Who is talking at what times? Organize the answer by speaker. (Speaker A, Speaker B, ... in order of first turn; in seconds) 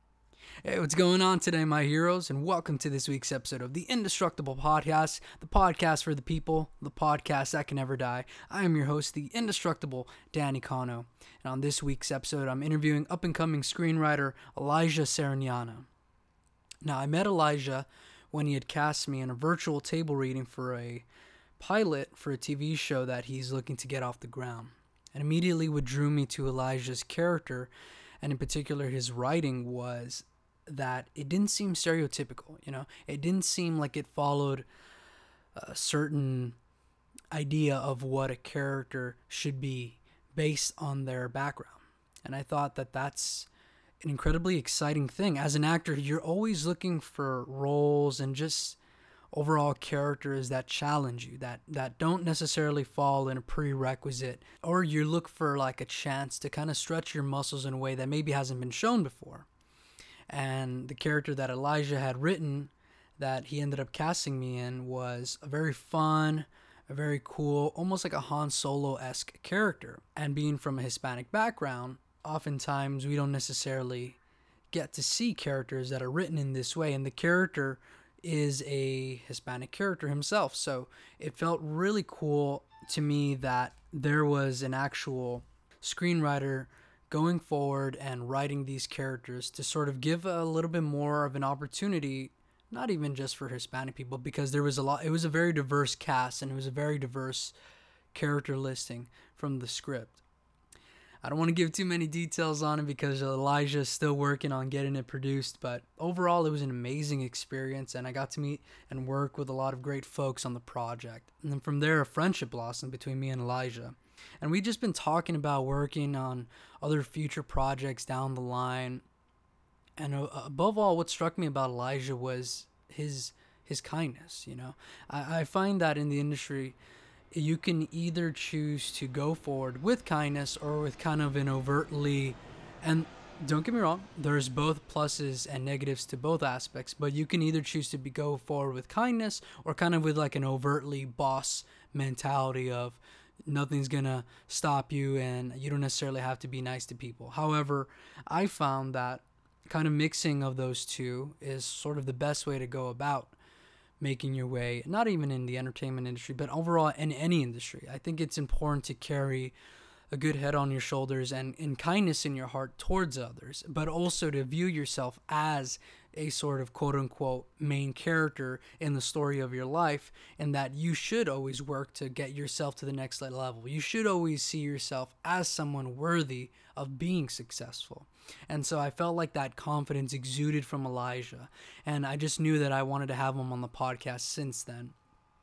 Speaker A: 0.6-15.9, 16.8-21.1, 21.6-27.7, 28.2-34.6, 35.5-36.5, 37.3-43.5, 44.0-48.8, 49.3-59.5, 60.3-74.2, 74.7-97.5, 98.1-100.2, 101.2-119.0, 120.0-126.8, 127.3-153.3, 154.0-159.5, 160.1-184.9